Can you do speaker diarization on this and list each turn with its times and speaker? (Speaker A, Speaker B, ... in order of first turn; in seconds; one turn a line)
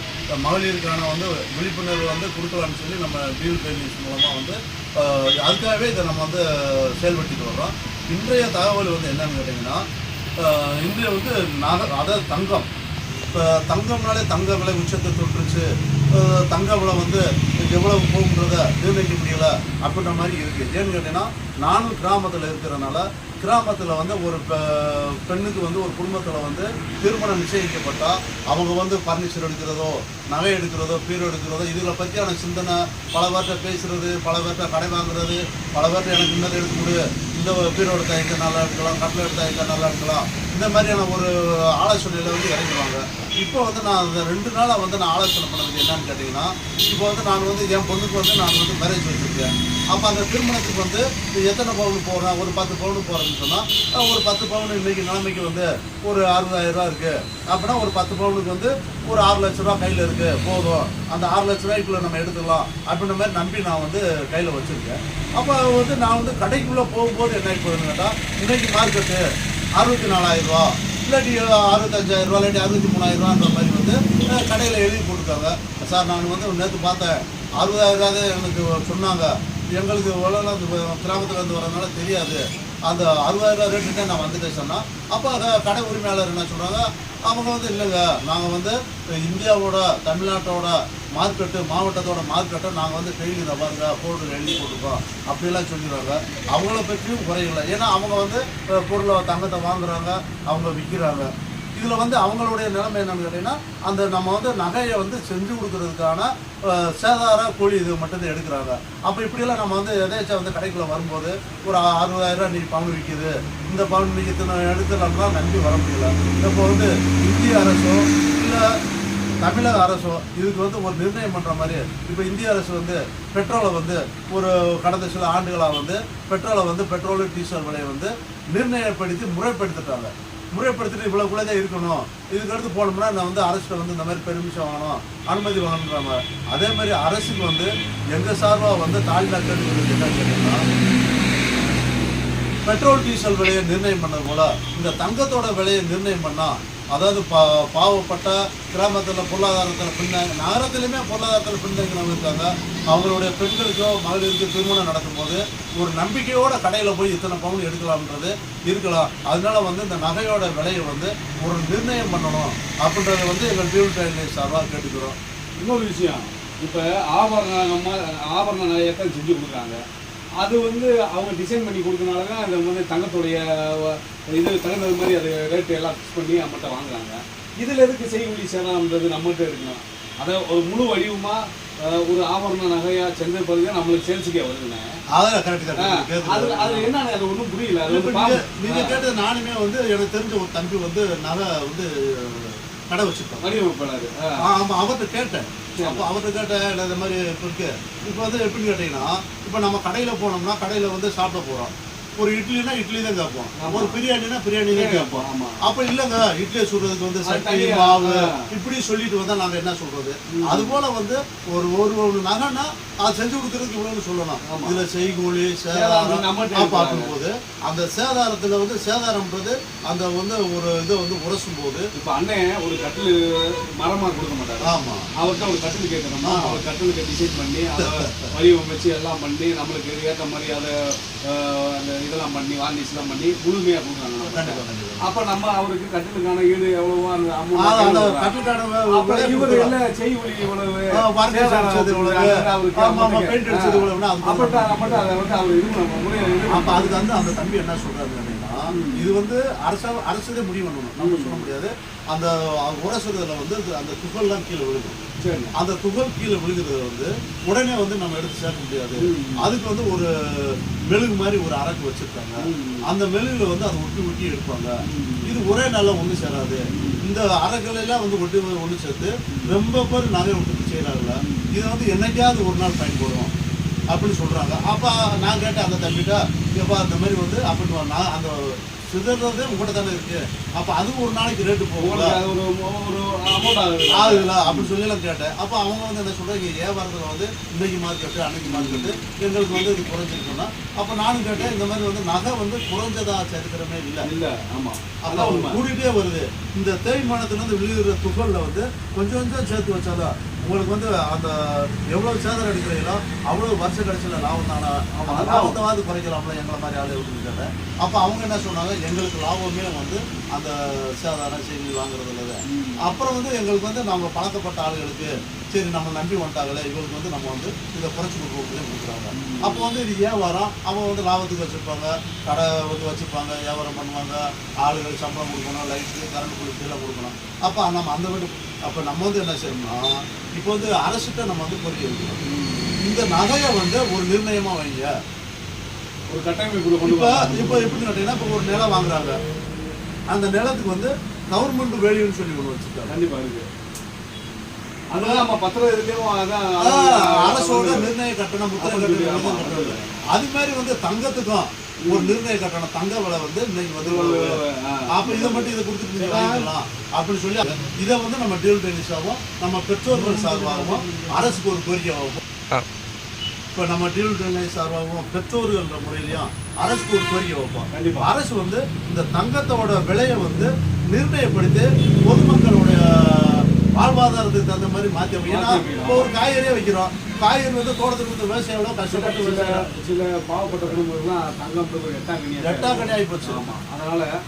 Speaker A: 0.4-9.8
Speaker A: 10.4-12.7
Speaker A: 13.3-69.2
Speaker A: 69.8-118.7
Speaker A: 119.4-140.6
Speaker A: 142.7-165.2
Speaker B: 165.6-169.8
Speaker B: 170.4-184.9
Speaker A: 185.1-186.9
Speaker B: 185.8-189.1
Speaker A: 187.9-193.5
Speaker B: 193.4-194.4
Speaker A: 194.4-221.9
Speaker B: 195.8-196.1
Speaker B: 203.6-204.0
Speaker B: 204.7-205.6
Speaker B: 207.2-208.5
Speaker B: 210.3-210.8
Speaker B: 214.4-214.8
Speaker B: 215.7-217.1
Speaker B: 221.9-238.3
Speaker A: 224.6-225.1
Speaker A: 226.2-226.6
Speaker A: 227.8-228.3
Speaker A: 234.2-235.0
Speaker A: 237.6-239.7
Speaker B: 238.9-246.9
Speaker A: 240.9-245.1
Speaker A: 246.5-255.0
Speaker B: 248.7-249.1
Speaker B: 251.0-251.5
Speaker B: 255.2-255.5
Speaker A: 255.6-273.3
Speaker B: 259.0-259.5
Speaker B: 262.4-262.9
Speaker B: 264.8-265.3
Speaker B: 266.7-267.0
Speaker B: 271.2-271.5
Speaker A: 273.9-282.2
Speaker B: 281.8-284.7
Speaker A: 283.9-294.1
Speaker B: 288.4-289.0
Speaker B: 294.0-295.6
Speaker A: 295.1-332.2
Speaker B: 305.1-305.6
Speaker B: 312.5-312.8
Speaker B: 319.1-319.7
Speaker B: 332.2-332.8
Speaker A: 332.8-334.9
Speaker B: 336.1-337.8
Speaker A: 336.8-339.2
Speaker A: 340.1-342.9
Speaker B: 342.9-343.5
Speaker B: 344.9-347.9
Speaker A: 344.9-345.3
Speaker A: 346.6-362.2
Speaker B: 348.6-350.0
Speaker B: 351.8-352.2
Speaker B: 353.8-356.5
Speaker B: 359.9-361.4
Speaker A: 363.6-379.6
Speaker B: 367.7-368.1
Speaker B: 375.3-376.1
Speaker B: 378.9-384.1
Speaker A: 382.4-383.4